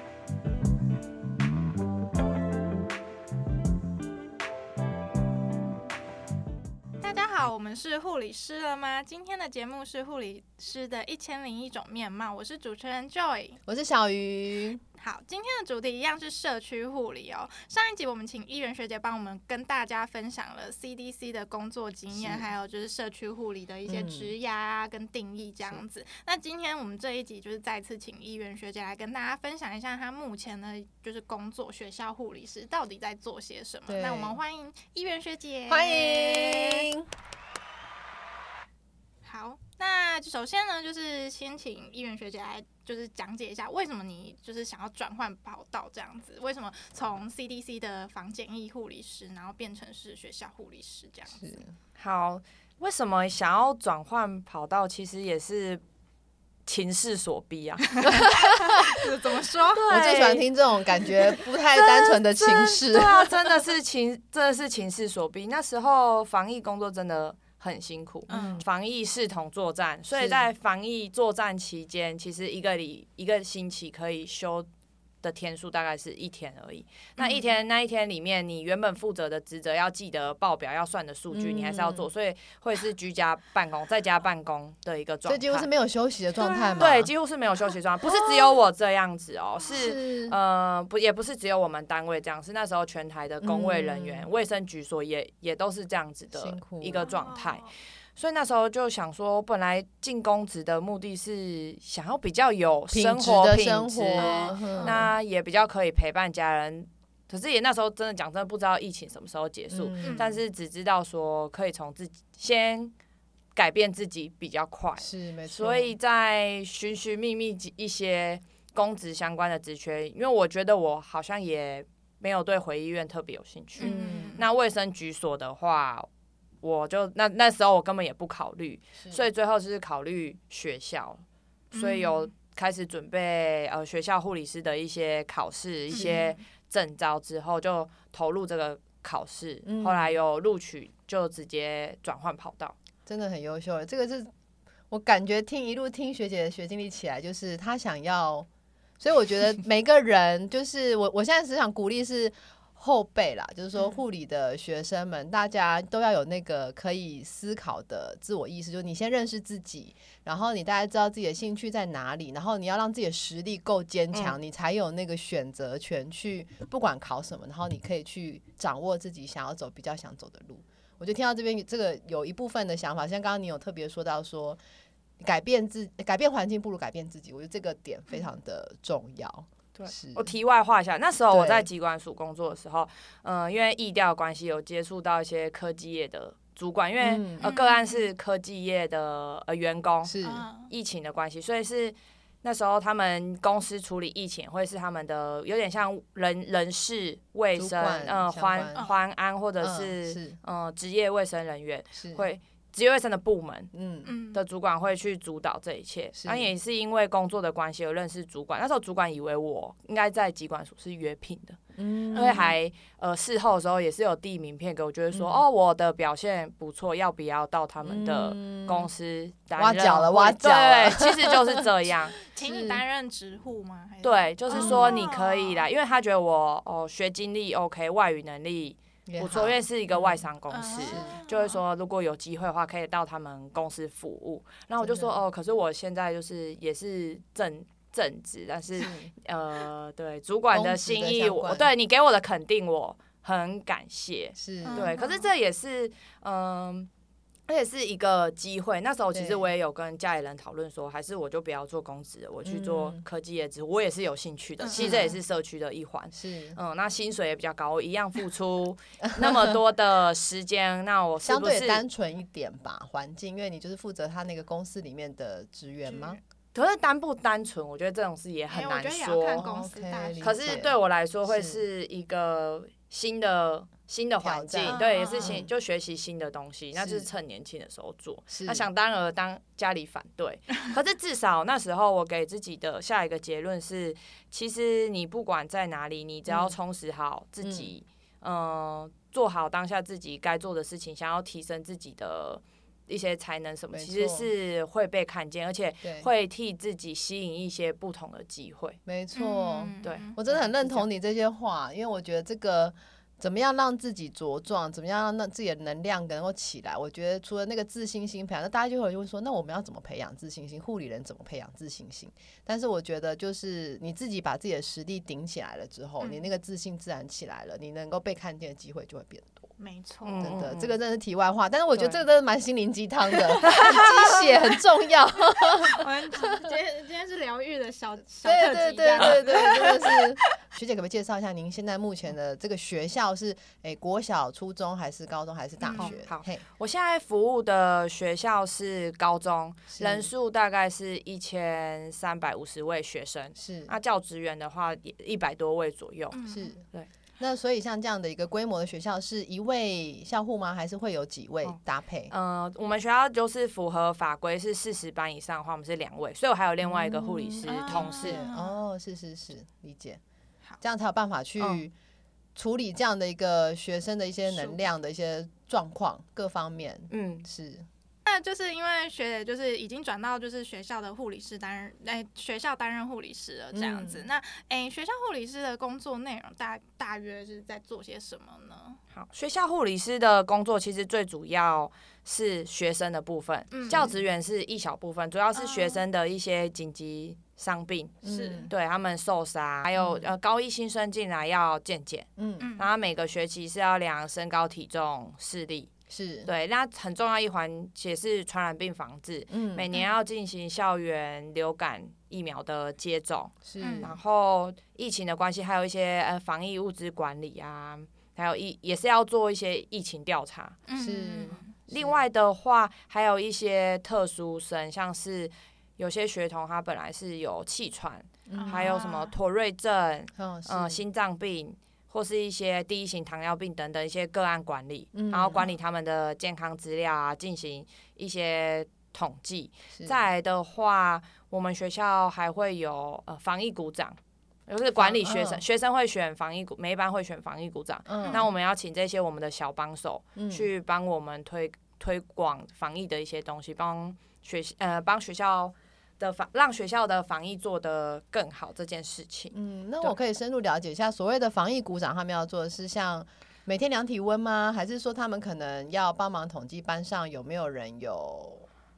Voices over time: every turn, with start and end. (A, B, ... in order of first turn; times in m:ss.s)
0:07.0-0:13.6 A
0:13.7-0:14.8 B
0:15.0-0:36.9 A
0:22.1-0:22.5 B
0:23.9-0:24.3 B
0:33.9-0:34.4 B
0:35.7-0:37.1 B
0:39.2-0:51.6 A
0:52.0-0:55.8 C
0:56.6-0:58.2 C
0:58.0-0:59.8 A
0:58.1-0:58.7 B
0:59.7-1:00.4 C
0:59.9-1:03.4 B
1:01.3-1:14.7 C
1:08.3-1:08.6 A
1:08.3-1:08.6 B
1:10.1-1:10.4 B
1:15.2-1:25.7 C
1:21.3-1:22.1 B
1:25.2-1:27.1 B
1:26.4-1:26.8 A
1:26.8-1:52.9 C
1:29.7-1:30.3 B
1:33.4-1:34.3 B
1:36.3-1:37.1 B
1:37.0-1:37.7 A
1:42.9-1:45.1 B
1:44.2-1:45.0 A
1:49.7-1:50.4 B
1:53.5-2:06.1 C
1:55.0-1:55.9 B
2:03.8-2:04.5 A
2:03.8-2:04.4 B
2:06.6-2:11.2 C
2:11.7-2:12.3 A
2:11.7-2:22.7 C
2:15.9-2:16.4 A
2:15.9-2:16.2 B
2:19.6-2:20.2 B
2:23.0-2:24.3 B
2:24.9-2:28.5 B
2:29.0-2:54.6 B
2:55.2-3:00.2 B
2:59.7-3:10.1 C
3:01.3-3:01.7 B
3:07.0-3:07.5 B
3:07.4-3:08.1 A
3:10.0-3:10.4 B
3:10.2-3:10.7 A
3:10.7-3:23.7 C
3:17.6-3:18.9 B
3:19.6-3:20.4 B
3:22.0-3:22.2 B
3:23.7-3:24.1 B
3:24.0-3:24.4 A
3:24.3-3:31.6 C
3:26.2-3:26.5 B
3:31.8-3:32.5 B
3:32.1-3:32.4 A
3:32.1-3:42.1 C
3:35.1-3:35.4 B
3:37.8-3:38.9 B
3:39.6-3:41.6 B
3:42.2-3:45.6 A
3:42.4-3:42.8 B
3:44.0-4:06.9 C
3:44.5-3:45.0 B
3:49.1-3:50.3 B
3:50.5-3:51.6 A
3:50.9-3:51.2 B
3:54.8-3:55.2 B
3:58.8-3:59.1 B
4:00.5-4:01.7 B
4:04.4-4:04.9 B
4:04.6-4:05.3 A
4:07.5-4:21.8 C
4:09.1-4:09.5 B
4:12.4-4:13.0 B
4:14.6-4:15.1 A
4:14.7-4:15.2 B
4:16.1-4:16.6 B
4:19.0-4:19.6 B
4:21.2-4:26.2 B
4:25.8-4:26.2 A
4:26.5-4:29.5 C
4:28.5-4:30.6 A
4:29.4-4:31.6 B
4:30.2-4:58.8 C
4:34.2-4:35.5 B
4:34.6-4:35.4 A
4:36.8-4:37.1 B
4:38.3-4:38.6 B
4:46.3-4:46.6 B
4:47.4-4:47.7 B
4:53.7-4:54.3 B
4:58.8-5:19.5 B
4:59.1-5:00.2 A
4:59.8-5:00.8 C
5:16.0-5:16.3 A
5:19.6-5:20.4 A
5:20.0-5:20.7 C
5:20.2-5:26.5 B
5:23.4-5:23.7 A
5:23.4-5:24.2 C
5:25.6-5:30.3 A
5:28.2-5:36.4 B
5:35.6-5:36.0 A
5:35.8-5:46.2 C
5:39.7-5:40.1 B
5:43.4-5:43.7 B
5:46.1-5:46.5 A
5:46.3-5:46.6 B
5:47.2-5:52.1 B
5:52.1-5:58.2 C
5:56.6-6:00.0 B
5:57.5-5:58.6 A
6:00.6-6:01.7 B
6:02.3-6:07.7 B
6:04.3-6:04.6 A
6:06.9-6:07.2 C
6:08.0-6:18.8 A
6:13.5-6:14.0 B
6:18.9-6:28.0 C
6:23.5-6:23.9 A
6:23.7-6:23.9 B
6:25.3-6:25.8 A
6:28.0-6:28.5 B
6:28.0-6:28.5 A
6:28.5-6:35.7 C
6:29.8-6:30.1 B
6:32.2-6:32.5 B
6:32.4-6:32.7 A
6:35.9-6:36.3 B
6:36.2-6:50.6 C
6:39.3-6:39.7 B
6:43.4-6:44.0 B
6:43.6-6:43.9 A
6:50.7-6:51.5 A
6:50.8-6:52.0 B
6:51.7-7:29.9 C
6:58.3-6:58.8 B
6:58.4-6:59.2 A
7:00.1-7:00.8 B
7:04.9-7:05.4 B
7:14.8-7:15.4 B
7:17.9-7:18.3 B
7:20.2-7:20.5 B
7:29.3-7:38.5 B